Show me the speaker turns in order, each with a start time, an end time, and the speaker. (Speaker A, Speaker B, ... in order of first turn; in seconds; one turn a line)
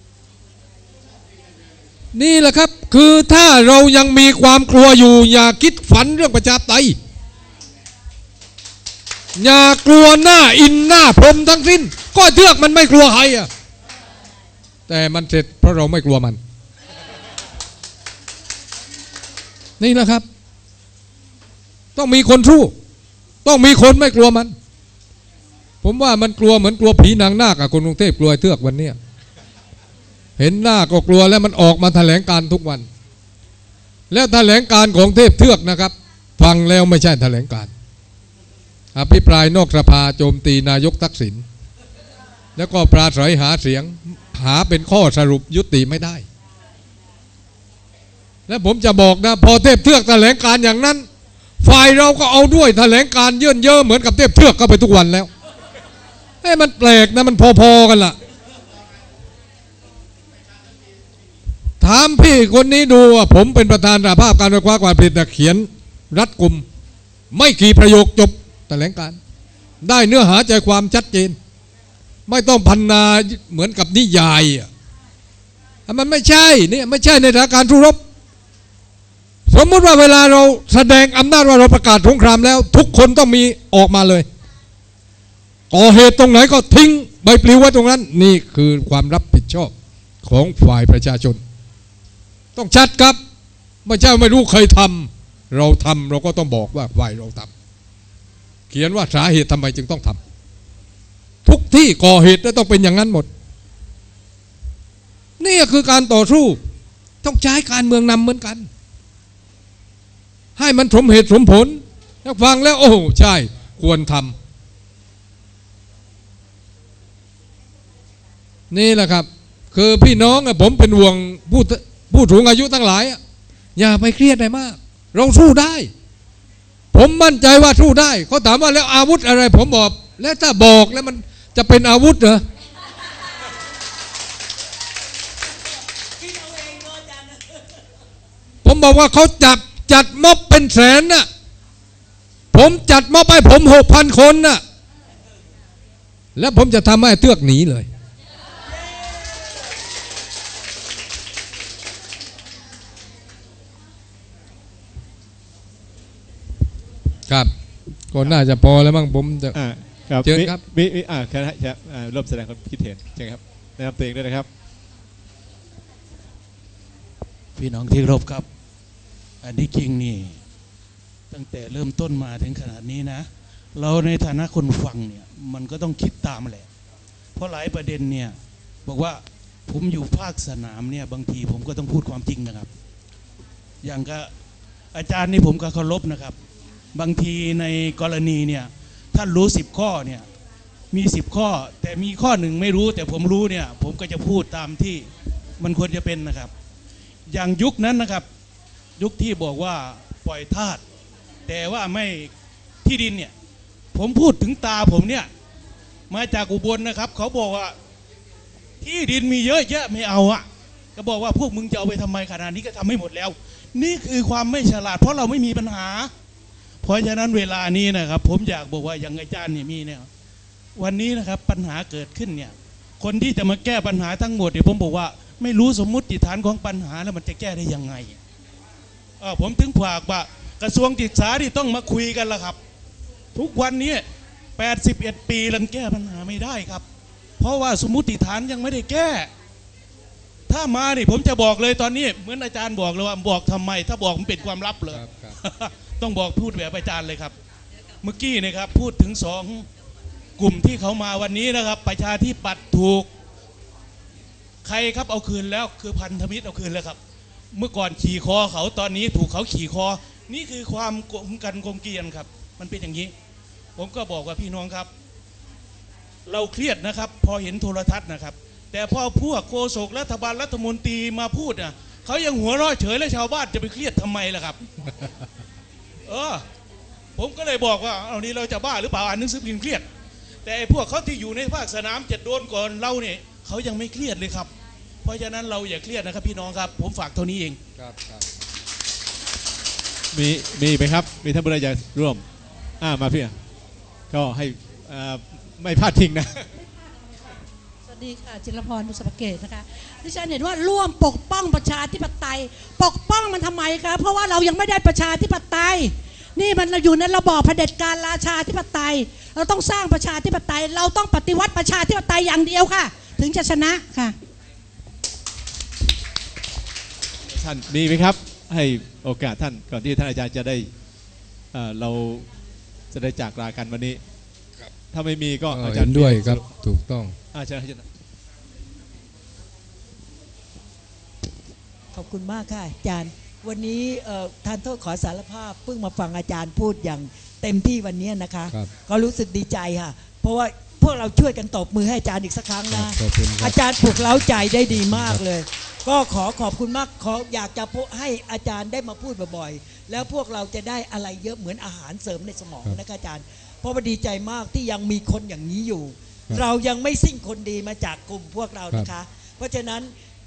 Speaker A: 2.1-7.0
Speaker A: 9.4-13.5
Speaker A: 14.9-16.4
Speaker A: 19.8-20.2
Speaker A: 22.0-22.7
Speaker A: 23.4-24.5
Speaker A: 25.8-29.0
Speaker A: 30.4-32.9
Speaker A: 34.1-37.7
Speaker A: 39.0-41.5
Speaker A: 42.6-46.2
Speaker A: 48.5-51.1
Speaker A: 51.6-55.3
Speaker A: 56.4-58.2
Speaker A: 61.8-66.7
Speaker A: 67.3-69.2
Speaker A: 69.8-71.4
Speaker A: 72.3-74.7
Speaker A: 75.9-78.0
Speaker A: 79.5-84.3
Speaker A: 85.7-89.7
Speaker A: 90.2-91.4
Speaker A: 92.5-93.2
Speaker A: 93.8-97.5
Speaker A: 98.7-100.2
Speaker A: 101.5-103.3
Speaker A: 105.4-106.6
Speaker A: 107.2-108.7
Speaker A: 110.6-114.4
Speaker A: 118.7-123.2
Speaker A: 123.8-125.9
Speaker A: 126.9-132.4
Speaker B: 136.2-137.6
Speaker A: 138.6-141.3
Speaker A: 142.5-144.6
Speaker A: 146.4-147.9
Speaker A: 158.1-159.6
Speaker C: 159.5-164.5
Speaker A: 160.2-160.6
Speaker D: 167.6-168.5
Speaker D: 169.4-170.4
Speaker D: 171.3-173.2
Speaker D: 173.8-176.7
Speaker D: 177.4-178.3
Speaker D: 178.9-182.7
Speaker D: 183.8-184.3
Speaker D: 184.9-186.3
Speaker D: 186.9-190.2
Speaker D: 190.9-195.1
Speaker D: 195.6-196.5
Speaker D: 197.3-198.2
Speaker D: 199.0-200.8
Speaker D: 201.5-202.3
Speaker D: 202.8-203.3
Speaker D: 203.9-205.3
Speaker D: 206.1-207.7
Speaker D: 208.8-210.4
Speaker D: 211.0-216.1
Speaker D: 216.8-220.1
Speaker D: 220.8-228.2
Speaker D: 229.2-232.6
Speaker D: 233.4-234.0
Speaker D: 234.6-236.8
Speaker D: 237.4-239.3
Speaker D: 240.5-244.8
Speaker A: 244.9-245.4
Speaker D: 245.4-247.3
Speaker D: 248.0-249.7
Speaker D: 250.4-253.1
Speaker D: 254.7-257.0
Speaker D: 257.5-263.1
Speaker D: 263.8-264.9
Speaker D: 266.3-274.6
Speaker D: 276.1-276.4
Speaker D: 277.2-279.9
Speaker D: 280.4-284.5
Speaker D: 285.0-287.6
Speaker A: 287.8-288.2
Speaker C: 290.1-292.2
Speaker C: 292.8-293.4
Speaker C: 294.1-296.4
Speaker E: 297.9-314.1
Speaker C: 317.3-320.7
Speaker C: 321.5-322.3
Speaker C: 322.9-324.0
Speaker C: 324.9-326.4
Speaker A: 325.5-327.1
Speaker C: 327.3-327.9
Speaker B: 331.9-359.9
Speaker A: 342.7-345.2